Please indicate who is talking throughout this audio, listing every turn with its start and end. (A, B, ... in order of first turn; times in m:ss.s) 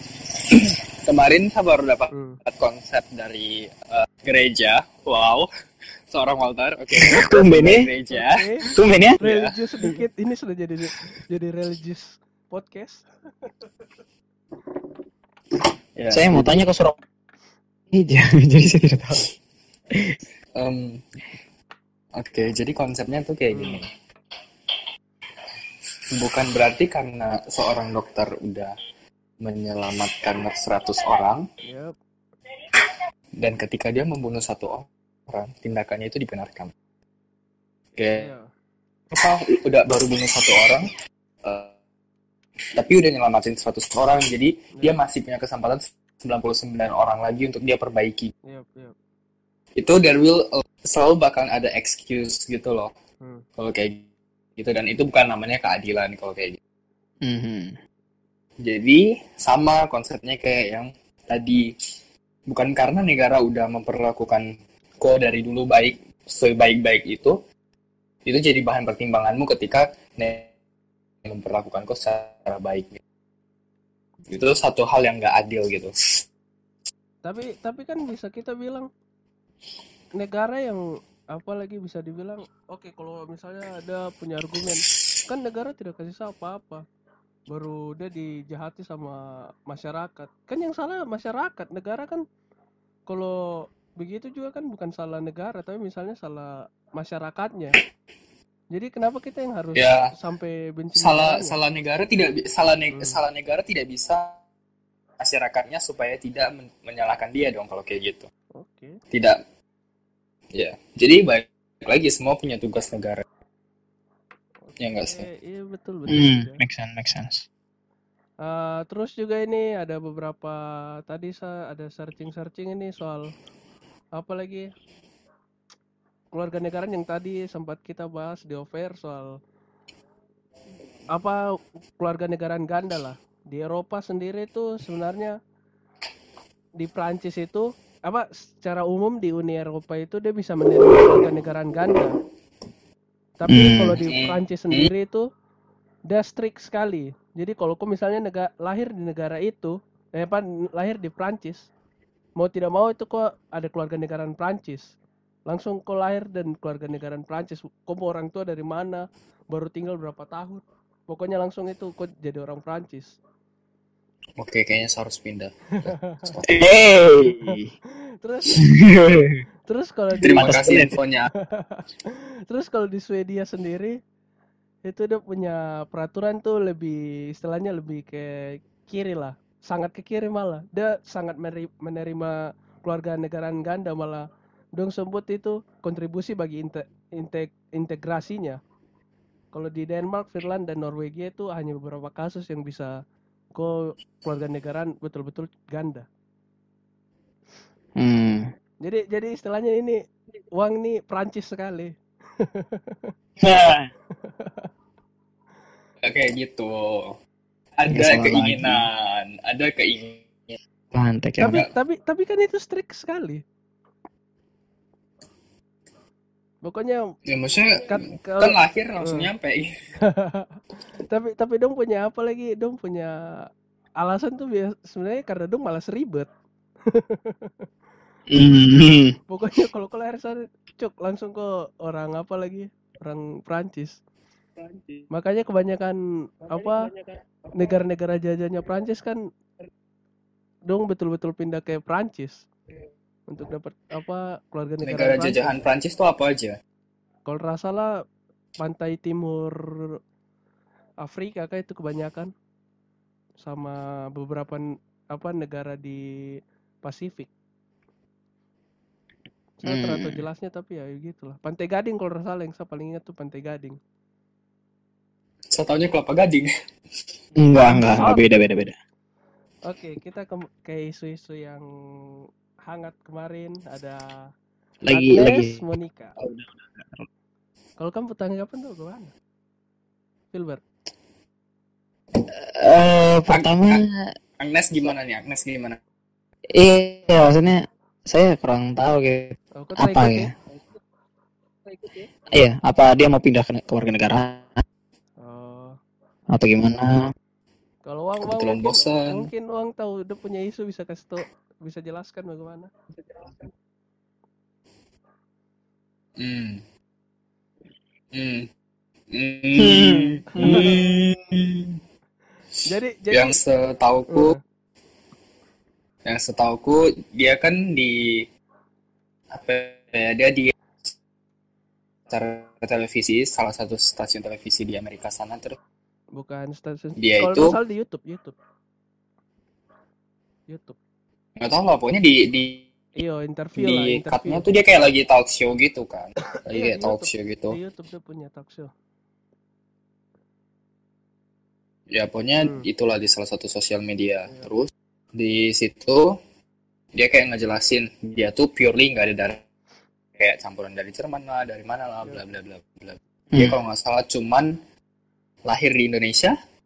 0:00.5-0:05.5 A
0:02.1-0:02.4 B
0:06.1-0:08.3 A
0:07.1-0:07.9 C
0:08.1-0:08.6 B
0:08.7-0:09.2 C
0:09.2-0:09.9 A
0:09.2-0:13.0 B
0:16.0-0:16.5 A
0:16.1-0:17.0 C
0:17.9-0:19.2 C
0:20.6-0:21.0 A
0:22.2-0:23.9 A
0:23.5-0:23.8 B
0:26.1-0:28.7 A
0:29.4-0:31.5 A
0:31.6-0:31.9 B
0:33.4-0:36.7 A
0:38.0-0:38.2 A
0:38.2-0:38.4 B
0:39.1-0:40.8 A
0:41.4-0:41.7 A
0:42.8-0:48.3 A
0:48.5-0:48.9 B
0:49.8-0:52.9 A
0:53.6-0:54.0 A
0:54.6-0:56.6 A
0:57.2-0:57.8 C
0:58.6-1:01.6 A
1:02.5-1:04.5 A
1:05.0-1:07.4 A
1:08.2-1:10.5 A
1:11.2-1:13.0 A
1:14.3-1:15.9 A
1:17.2-1:18.9 B
1:20.2-1:20.8 B
1:21.3-1:26.8 B
1:27.5-1:29.2 B
1:29.7-1:32.2 B
1:33.1-1:33.3 B
1:34.0-1:37.8 B
1:38.7-1:41.5 B
1:39.7-1:40.1 A
1:41.0-1:44.4 A
1:42.9-1:43.2 B
1:45.2-1:48.3 A
1:48.6-1:49.0 B
1:49.1-1:49.4 A
1:50.5-1:53.2 A
1:54.6-1:56.6 B
1:54.8-1:55.2 A
1:56.1-1:57.4 C
1:58.4-2:03.3 B
2:04.2-2:04.6 B
2:06.3-2:09.3 B
2:12.0-2:15.3 B
2:16.8-2:22.1 B
2:23.4-2:25.2 B
2:23.5-2:24.0 C
2:24.1-2:24.9 A
2:26.1-2:31.7 B
2:32.4-2:34.9 B
2:35.5-2:43.2 B
2:44.4-2:46.4 A
2:45.8-2:46.2 B
2:46.5-2:47.7 C
2:47.3-2:47.6 B
2:48.2-2:48.6 B
2:48.6-2:49.4 C
2:49.7-2:50.6 B
2:50.2-2:51.3 A
2:50.3-2:50.9 C
2:51.4-2:54.0 B
2:54.8-3:04.2 B
3:04.8-3:08.6 B
3:09.5-3:13.0 B
3:13.5-3:16.1 B
3:18.0-3:18.5 C
3:18.8-3:20.0 B
3:20.6-3:23.1 B
3:23.4-3:23.9 C
3:24.1-3:24.7 B
3:26.0-3:27.2 A
3:27.8-3:30.6 A
3:27.9-3:28.8 C
3:30.9-3:31.6 C
3:31.4-3:33.4 B
3:36.6-3:37.0 B
3:37.3-3:39.7 A
3:37.9-3:39.3 B
3:40.1-3:40.5 B
3:41.1-3:43.1 B
3:44.0-3:46.3 B
3:46.9-3:47.5 B
3:48.3-3:49.1 C
3:49.3-3:54.0 B
3:55.1-3:56.0 B
3:56.5-3:56.8 B
3:57.6-3:59.2 B
4:00.7-4:02.5 B
4:03.3-4:05.6 B
4:04.8-4:06.6 A
4:07.3-4:07.9 B
4:08.6-4:09.9 B
4:11.0-4:12.3 B
4:13.4-4:16.0 B
4:16.8-4:17.3 B
4:19.6-4:23.8 B
4:19.6-4:20.2 C
4:25.5-4:26.5 A
4:27.4-4:28.7 C
4:27.7-4:28.2 B
4:29.7-4:31.6 B
4:32.7-4:34.0 B
4:34.8-4:35.6 C
4:34.9-4:36.2 B
4:36.2-4:37.0 C
4:37.8-4:39.1 B
4:40.3-4:40.6 B
4:42.4-4:43.9 C
4:43.3-4:43.8 A
4:44.4-4:45.8 A
4:46.5-4:50.3 C
4:49.6-4:50.3 B
4:52.3-4:54.6 C
4:55.2-4:55.8 B
4:56.3-4:57.1 C
4:57.8-5:02.7 B
4:58.2-4:59.3 A
5:06.2-5:06.6 A
5:08.1-5:08.5 A
5:09.1-5:11.8 A
5:09.6-5:10.8 C
5:10.3-5:10.7 B
5:12.6-5:13.3 B
5:13.1-5:14.4 A
5:16.0-5:18.0 A
5:19.3-5:20.5 A
5:22.1-5:25.6 A
5:26.2-5:28.3 B
5:27.0-5:27.6 A
5:30.5-5:30.8 B
5:31.4-5:32.6 A
5:33.0-5:34.4 B
5:33.6-5:37.6 A
5:36.5-5:38.7 B
5:41.9-5:46.1 A
5:46.9-5:49.4 A
5:50.2-5:54.5 A
5:53.3-5:53.6 C
5:55.5-5:56.3 A